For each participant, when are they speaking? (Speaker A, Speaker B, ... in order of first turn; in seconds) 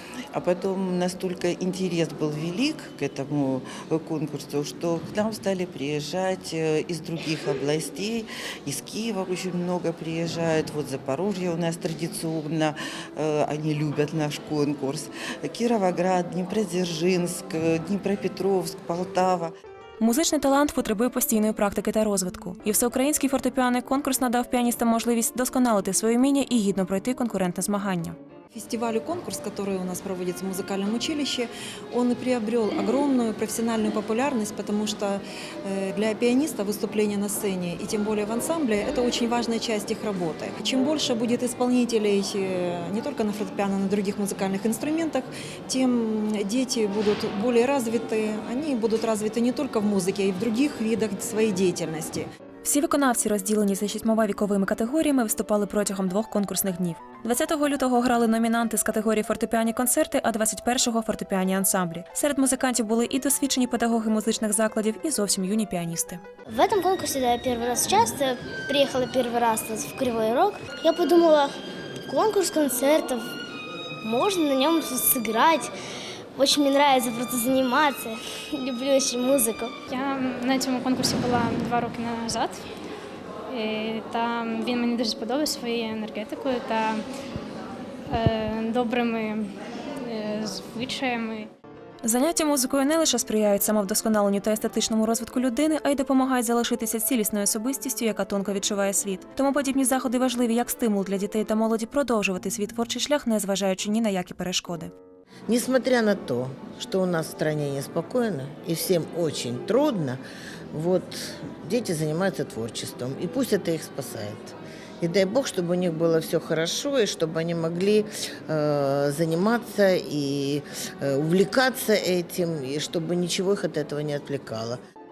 Speaker A: 0.3-19.5
Speaker B: 20.0-28.2, 52.6-66.2, 92.0-104.9
Speaker C: 28.5-52.3
Speaker D: 66.5-71.5, 72.1-73.2, 74.0-75.7, 76.3-79.7
Speaker E: 79.9-82.6, 83.5-87.0, 88.1-89.5, 90.1-91.5
Speaker F: 105.5-110.2, 110.7-124.8